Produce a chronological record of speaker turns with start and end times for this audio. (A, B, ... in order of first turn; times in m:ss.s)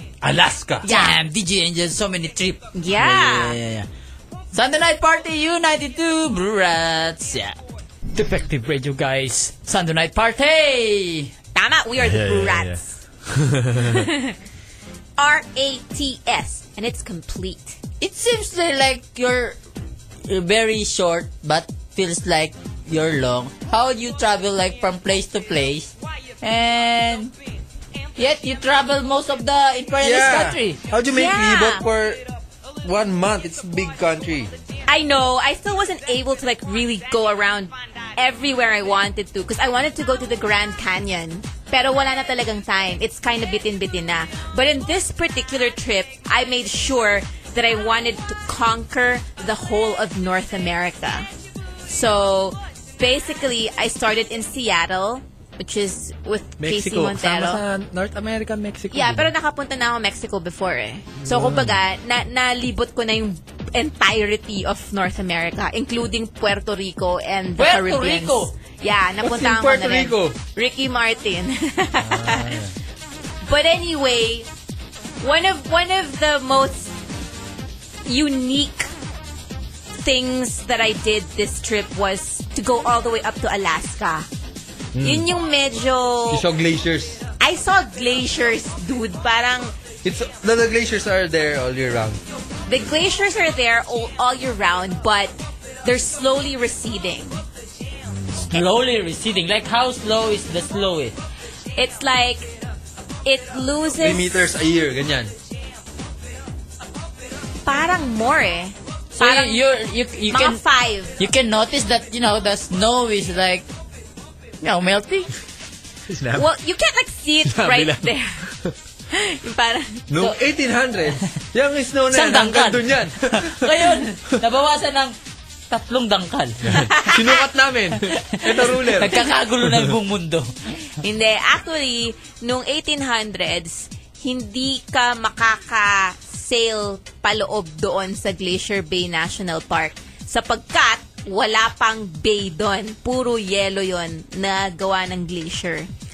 0:00.2-0:00.9 A
0:00.8-0:01.2 B
0:00.8-0:03.9 C
0:02.7-0:03.6 B
0:04.5-0:07.6 C
0:08.1-0:11.3 C
0:11.5-0:13.0 B
0:12.0-0:14.0 A
0:13.8-0:14.4 B
0:15.2-0:17.8 B
0:18.0-0:19.6 C
0:20.2-0:27.3 C
0:28.2-0:30.8 C
0:30.0-0:32.2 A
0:31.1-0:31.8 B
0:32.8-0:34.5 A
0:34.9-0:51.3 B
0:51.9-0:57.6 B
0:56.6-0:59.3 A
0:58.9-1:12.6 B
1:01.2-1:01.8 A
1:07.6-1:08.5 C
1:09.2-1:10.4 A
1:12.0-1:12.7 A
1:13.4-1:14.5 B
1:15.2-1:16.9 B
1:18.1-1:18.9 B
1:19.9-1:24.3 B
1:24.9-1:25.3 A
1:25.0-1:26.4 B
1:26.3-1:27.2 A
1:27.4-1:29.7 B
1:30.0-1:32.2 A
1:32.7-1:37.4 B
1:38.0-1:38.5 A
1:38.5-1:41.2 C
1:41.8-1:42.5 B
1:43.2-1:44.3 B
1:44.0-1:45.3 A
1:47.6-1:49.6 B
1:49.1-1:50.6 C
1:50.3-1:51.1 B
1:51.2-1:53.7 C
1:54.6-1:55.3 C
1:56.1-1:56.4 A
1:56.3-1:58.4 B
1:57.4-1:58.7 A
1:59.1-2:00.3 B
2:00.1-2:04.0 A
2:02.1-2:05.1 C
2:05.7-2:06.8 C
2:06.6-2:09.9 A
2:06.9-2:07.4 B
2:08.3-2:10.5 C
2:11.0-2:25.9 B